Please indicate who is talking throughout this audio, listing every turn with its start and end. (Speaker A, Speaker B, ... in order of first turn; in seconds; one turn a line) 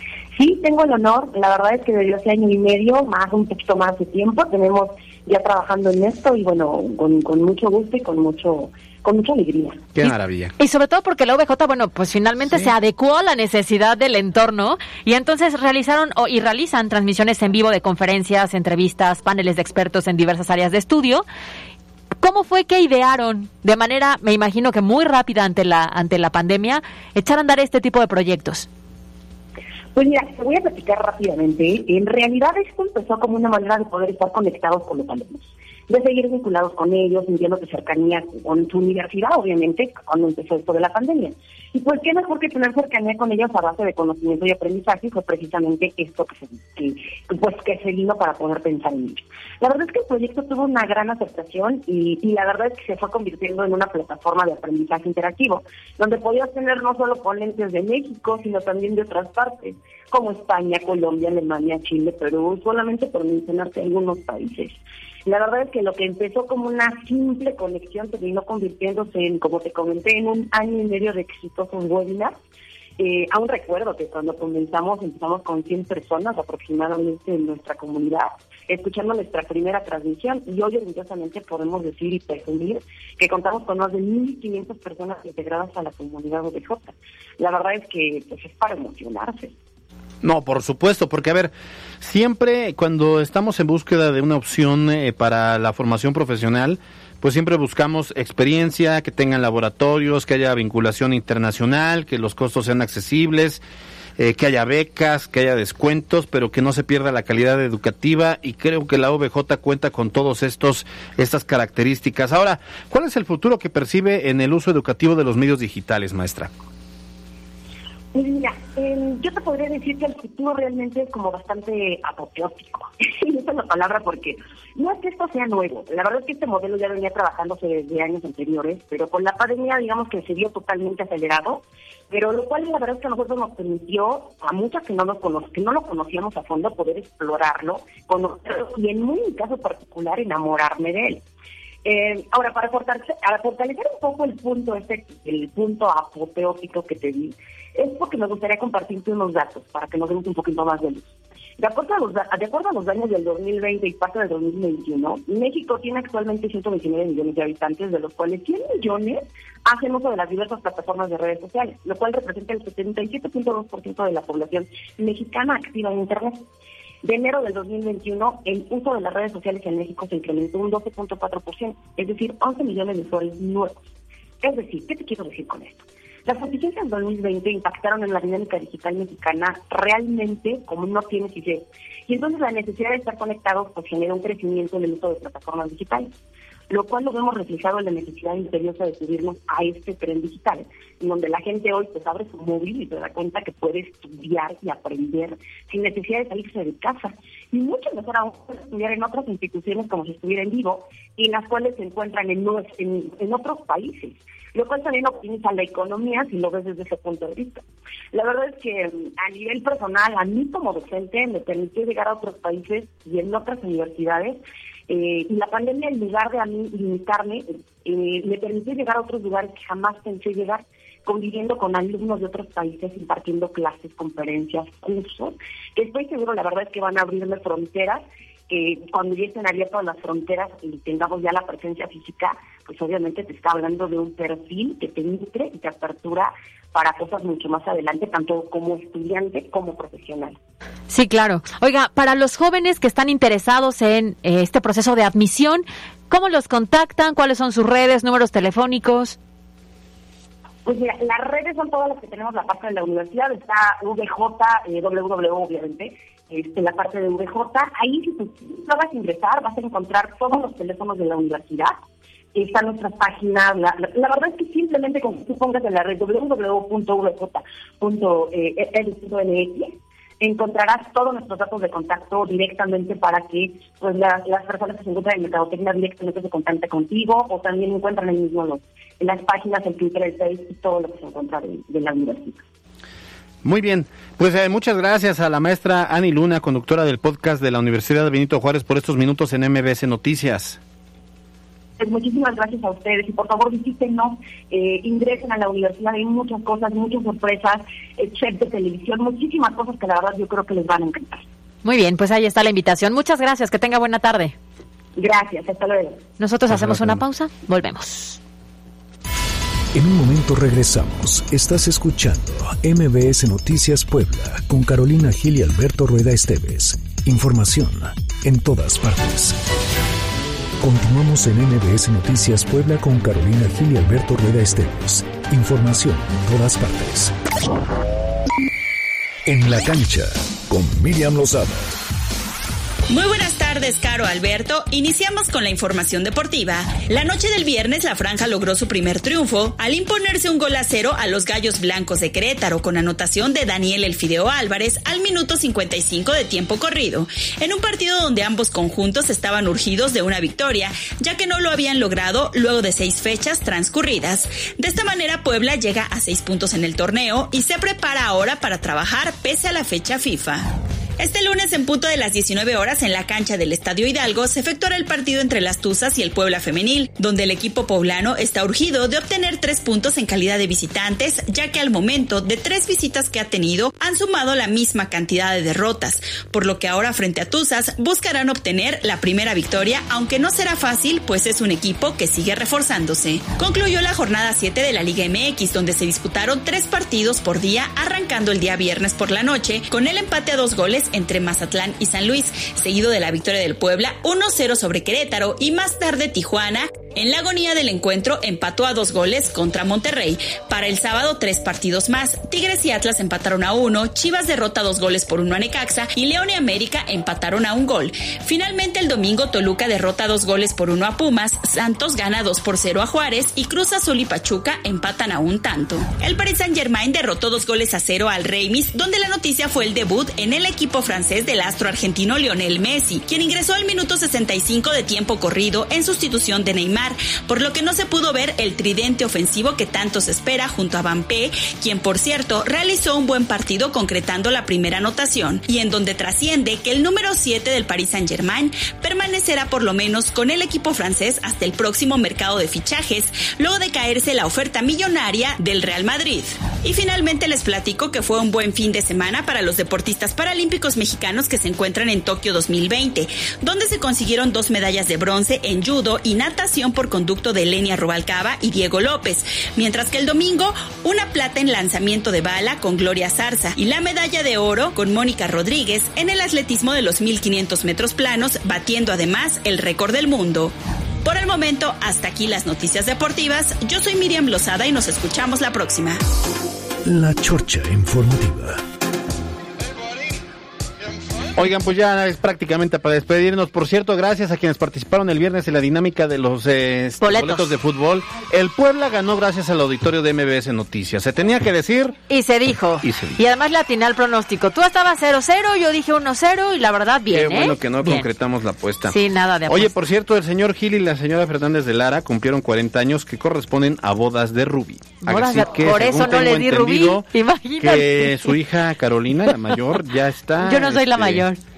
Speaker A: 0.3-9.9
Speaker B: 9.9-10.5
Speaker C: 10.0-21.2
Speaker C: 22.2-28.7
Speaker A: 29.9-72.4
Speaker A: 73.0-89.5
Speaker B: 90.2-103.6
Speaker B: 104.2-116.5
Speaker A: 118.1-141.2
Speaker A: 141.8-166.5
Speaker A: 167.0-173.8
Speaker A: 174.4-186.1
Speaker A: 186.7-240.4
Speaker C: 240.9-249.2
Speaker A: 250.7-261.8
Speaker A: 262.3-282.4
Speaker B: 283.4-290.6
Speaker A: 291.8-301.2
Speaker C: 301.6-304.4
Speaker A: 305.0-306.0
Speaker C: 306.2-308.2
Speaker B: 306.5-307.0
Speaker D: 309.7-319.4
Speaker D: 320.6-327.1
Speaker D: 329.3-331.8
Speaker E: 332.9-360.5
Speaker E: 361.0-476.0
Speaker D: 476.9-478.6
Speaker B: 481.4-492.0
Speaker C: 487.0-487.5
Speaker C: 492.1-498.1
Speaker B: 492.8-493.2
Speaker B: 497.1-511.3
Speaker C: 498.9-499.7
Speaker C: 505.0-508.3
Speaker C: 510.4-511.4